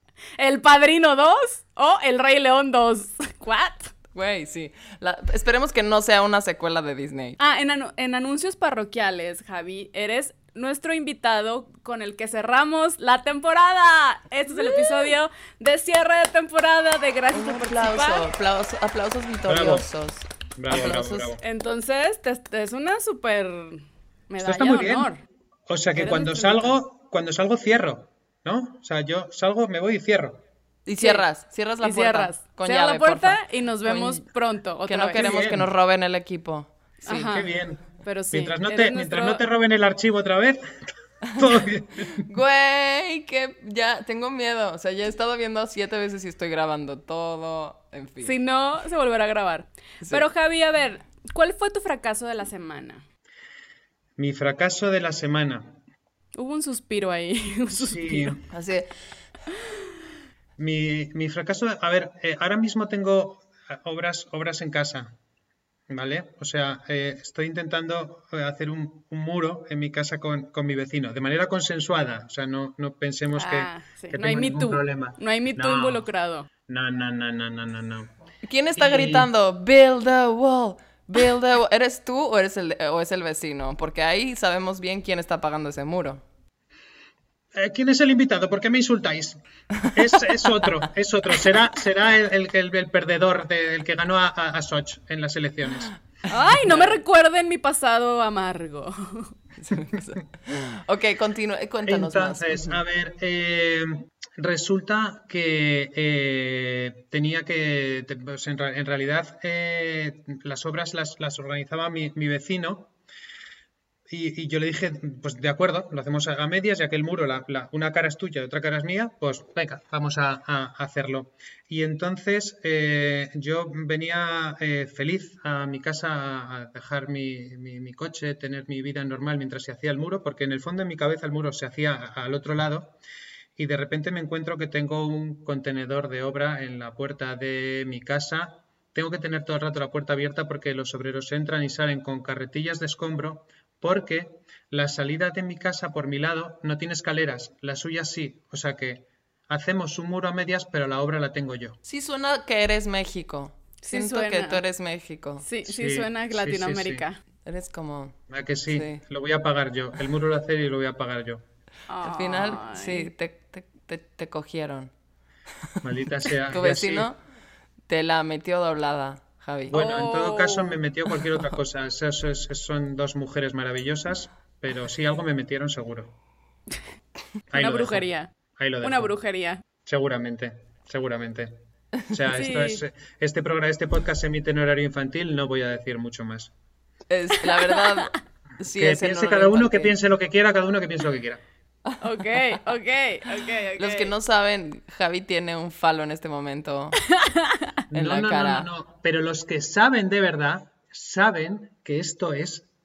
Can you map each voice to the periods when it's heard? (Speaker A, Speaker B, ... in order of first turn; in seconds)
Speaker A: 0.4-3.9, 7.4-18.3, 21.4-25.2, 25.9-26.8, 31.0-31.2, 31.8-35.3, 37.0-37.5, 38.0-39.4, 48.2-53.0, 56.3-58.4, 73.3-76.5, 96.3-99.3, 153.8-154.6, 155.4-157.2, 161.9-163.1, 169.7-170.8, 177.5-178.3, 178.8-179.6, 182.3-182.8, 187.5-188.0, 192.0-194.1
Speaker B: 4.1-7.4, 17.3-21.3, 30.9-34.2, 34.9-37.3, 42.2-48.3, 58.5-58.9, 78.5-86.2, 99.6-102.8, 151.8-155.4, 157.4-158.2, 158.7-159.0, 162.0-164.9, 166.5-167.2, 167.9-169.8, 187.1-189.9, 193.8-197.0, 197.9-198.7
Speaker C: 19.4-19.9, 20.6-21.4, 24.4-25.1, 25.7-30.4, 35.1-35.7, 37.2-40.6, 41.3-42.2, 54.2-55.8, 57.7-58.4, 60.6-65.1, 65.9-76.0, 76.7-78.1, 78.8-79.3, 87.5-96.0, 96.6-97.0, 101.8-112.9, 114.1-132.9, 133.6-151.8, 155.7-157.0, 158.3-161.4, 165.8-167.1, 169.7-176.1, 177.5-178.0, 178.5-179.1, 179.8-181.5, 182.1-186.5, 188.8-191.4, 197.9-202.6